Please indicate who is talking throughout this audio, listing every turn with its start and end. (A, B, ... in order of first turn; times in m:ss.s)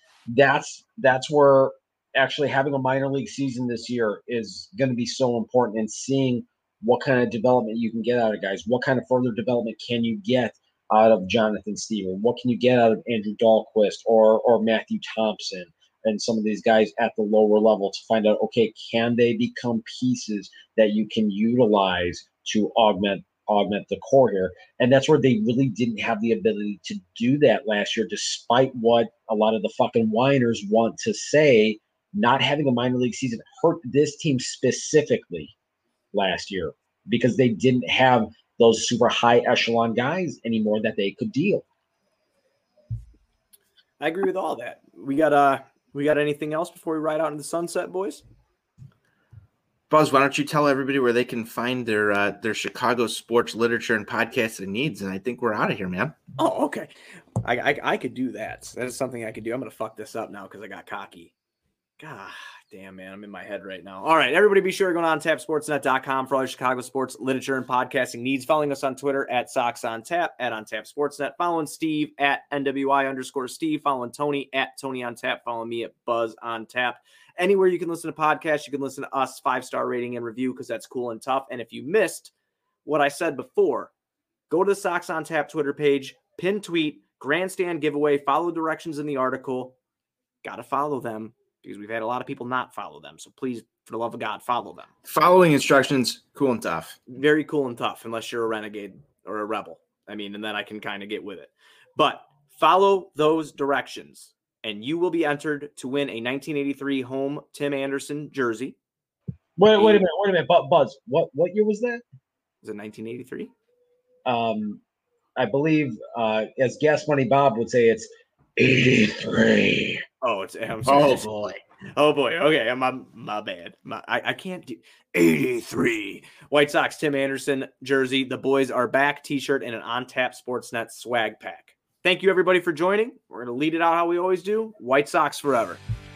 0:00.3-0:35.5 A
0:36.1-0:41.6 A
0:44.0-0:48.2 B
0:49.9-0:56.2 C
0:56.4-0:56.9 B
0:57.4-1:01.3 B
1:02.0-1:22.3 B
1:22.8-1:23.9 B
1:24.5-1:29.8 B
1:30.4-1:34.9 B
1:35.1-1:37.0 C
1:37.1-1:48.8 B
1:49.6-1:52.0 A
1:49.8-1:50.0 B
1:52.6-1:53.5 B
1:54.3-1:54.8 A
1:55.4-2:00.0 A
2:00.2-2:01.2 B
2:00.9-2:01.6 C
2:02.0-2:15.8 B